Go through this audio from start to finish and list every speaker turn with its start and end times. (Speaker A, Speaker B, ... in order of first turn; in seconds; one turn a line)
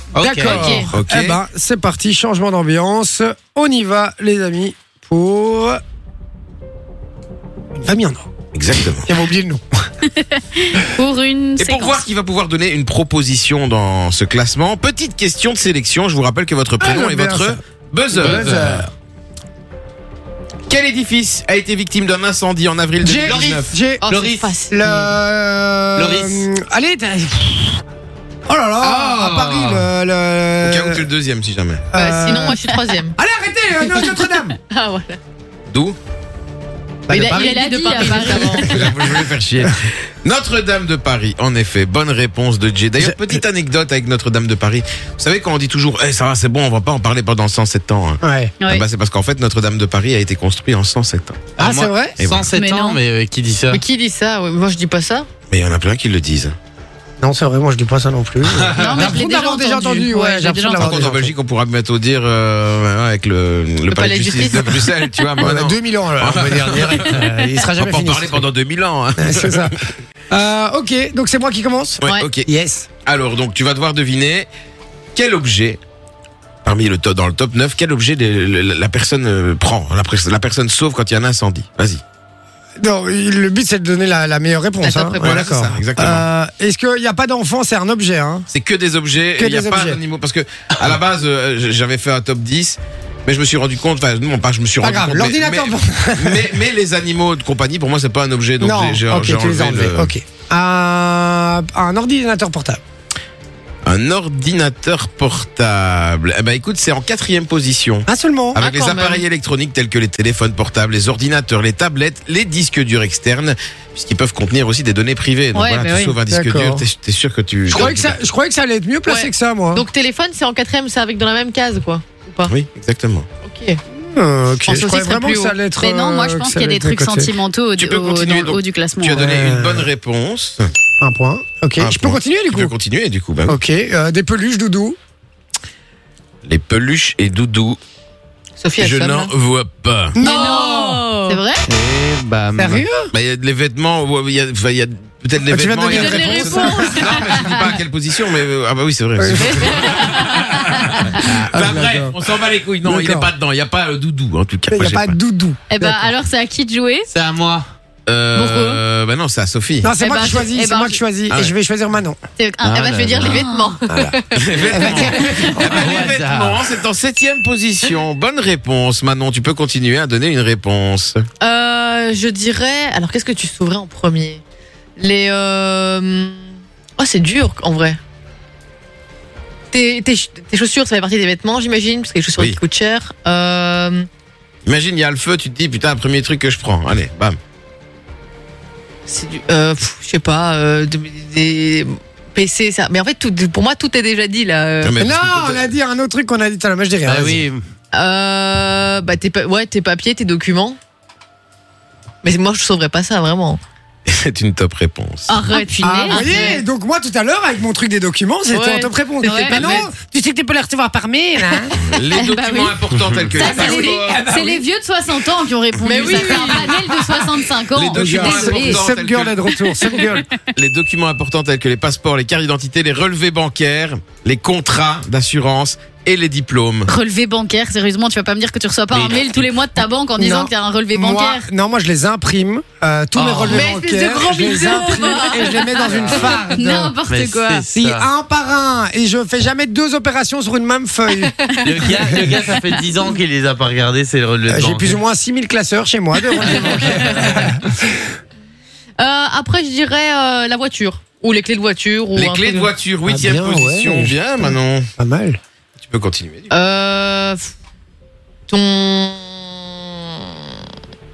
Speaker A: 0.1-0.8
Speaker B: 0.2-5.8
Speaker C: 0.5-0.9
Speaker D: 0.9-1.4
Speaker B: 7.8-8.3
Speaker D: 8.5-9.1
Speaker B: 8.9-9.6
Speaker C: 10.2-12.0
Speaker D: 11.6-18.8
Speaker B: 16.8-17.6
Speaker B: 18.1-18.9
Speaker A: 18.2-18.8
Speaker D: 20.7-23.7
Speaker B: 23.0-24.0
Speaker E: 24.0-25.2
Speaker A: 24.1-24.5
Speaker B: 24.7-27.8
Speaker A: 25.9-26.5
Speaker B: 28.5-31.1
Speaker A: 28.8-29.9
Speaker D: 30.6-31.9
Speaker B: 31.9-34.5
Speaker E: 31.9-33.1
Speaker E: 34.0-35.2
Speaker D: 35.7-36.0
Speaker B: 37.1-38.9
Speaker E: 37.1-38.8
Speaker C: 37.4-38.8
Speaker D: 38.6-51.4
Speaker B: 43.0-43.4
Speaker B: 48.2-48.5
Speaker A: 51.6-53.8
Speaker B: 51.6-52.2
Speaker D: 52.2-52.5
Speaker C: 52.5-53.0
Speaker E: 53.7-55.3
Speaker D: 55.5-56.5
Speaker B: 57.2-61.3
Speaker A: 58.6-59.0
Speaker C: 58.7-61.1
Speaker D: 60.8-69.8
Speaker E: 63.9-64.9
Speaker B: 65.4-68.4
Speaker B: 69.2-69.7
Speaker B: 70.3-72.9
Speaker D: 72.0-72.5
Speaker D: 73.0-74.5
Speaker D: 75.1-75.8
Speaker D: 76.6-82.0
Speaker B: 82.8-88.5
Speaker E: 84.8-85.3
Speaker D: 85.2-86.2
Speaker D: 88.5-100.1
Speaker B: 89.3-90.0
Speaker B: 94.8-96.5
Speaker B: 98.6-102.8
Speaker D: 103.8-118.2
Speaker B: 108.1-108.6
Speaker E: 108.6-109.2
Speaker C: 115.5-116.1
Speaker B: 116.3-116.8
Speaker B: 117.7-119.8
Speaker E: 119.0-122.5
Speaker D: 122.5-123.2
Speaker E: 123.4-123.8
Speaker B: 123.9-127.3
Speaker E: 124.6-125.5
Speaker C: 125.8-129.2
Speaker D: 127.8-130.7
Speaker B: 129.1-129.9
Speaker B: 131.0-132.7
Speaker D: 131.8-133.6
Speaker B: 133.5-135.0
Speaker D: 136.4-137.8
Speaker E: 138.6-139.3
Speaker D: 138.8-140.2
Speaker B: 140.1-141.0
Speaker E: 140.2-141.4
Speaker C: 140.2-141.6
Speaker A: 141.7-142.8
Speaker B: 142.6-143.1
Speaker D: 143.1-155.2
Speaker B: 145.5-147.5
Speaker E: 145.9-147.3
Speaker C: 146.3-147.8
Speaker B: 149.2-150.0
Speaker C: 149.4-151.1
Speaker B: 151.2-152.2
Speaker B: 152.8-153.3
Speaker B: 154.7-156.1
Speaker C: 155.7-157.1
Speaker A: 157.1-157.7
Speaker D: 158.1-159.9
Speaker C: 158.3-158.8
Speaker B: 159.8-162.2
Speaker C: 160.0-161.0
Speaker C: 162.4-163.8
Speaker A: 162.6-163.5
Speaker E: 162.7-165.6
Speaker B: 163.9-165.5
Speaker D: 164.3-171.2
Speaker A: 165.4-166.7
Speaker E: 171.4-174.4
Speaker E: 175.0-176.5
Speaker E: 177.0-178.0
Speaker E: 179.7-184.1
Speaker D: 184.6-187.4
Speaker E: 189.1-194.9
Speaker D: 194.8-195.7
Speaker B: 195.0-197.4
Speaker A: 197.0-197.6
Speaker E: 197.9-200.8
Speaker E: 202.2-203.6
Speaker D: 204.1-205.3
Speaker E: 205.3-206.6
Speaker C: 205.5-206.5
Speaker B: 205.8-211.7
Speaker E: 208.5-209.9
Speaker C: 209.2-209.7
Speaker D: 211.8-214.3
Speaker E: 212.1-212.8
Speaker C: 212.2-212.7
Speaker C: 213.3-218.8
Speaker B: 213.5-214.6
Speaker E: 215.8-217.3
Speaker B: 216.0-216.7
Speaker D: 217.7-226.9
Speaker B: 217.9-220.2
Speaker C: 219.8-220.2
Speaker C: 226.9-231.5
Speaker D: 228.9-229.5
Speaker B: 230.2-236.9
Speaker A: 233.1-233.7
Speaker E: 233.5-236.1
Speaker C: 234.5-235.7
Speaker A: 235.8-236.3
Speaker C: 236.3-237.6
Speaker A: 237.0-238.1
Speaker B: 237.7-242.3
Speaker C: 241.4-241.8
Speaker A: 241.6-245.0
Speaker B: 244.5-247.9
Speaker A: 246.7-247.3
Speaker E: 249.0-252.7
Speaker D: 252.1-254.9
Speaker B: 253.1-255.4
Speaker D: 255.8-256.5
Speaker E: 256.5-257.5
Speaker E: 258.5-260.6